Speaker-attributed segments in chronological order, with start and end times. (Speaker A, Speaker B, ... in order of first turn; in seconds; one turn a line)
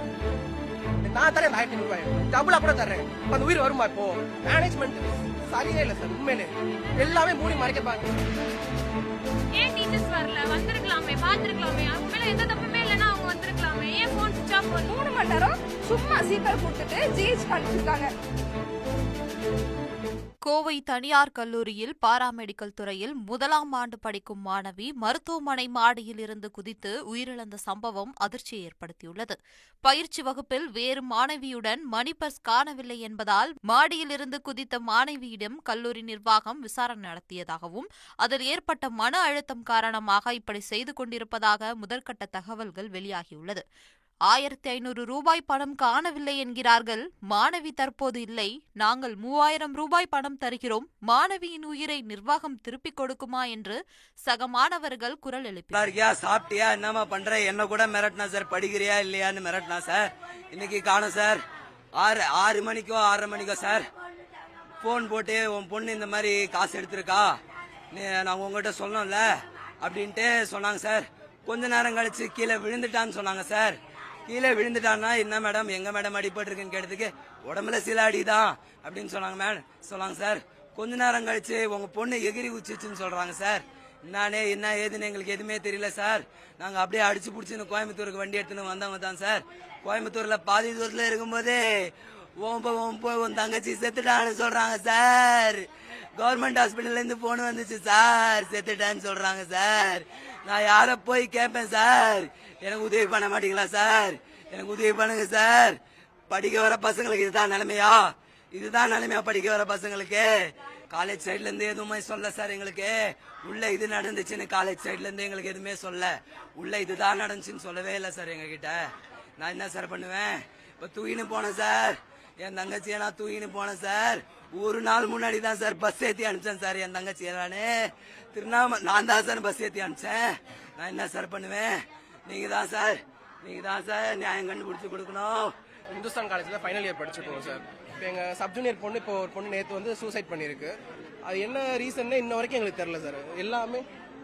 Speaker A: 1.0-8.1
Speaker B: 9.6-14.9
Speaker C: 14.9-18.1
Speaker D: 20.4-43.6
Speaker D: 44.3-55.8
Speaker E: 55.7-61.4
Speaker E: 62.0-63.9
Speaker E: 64.8-67.3
Speaker E: 67.9-105.8
Speaker E: 106.3-118.8
Speaker E: 119.4-135.5
Speaker A: 135.9-143.8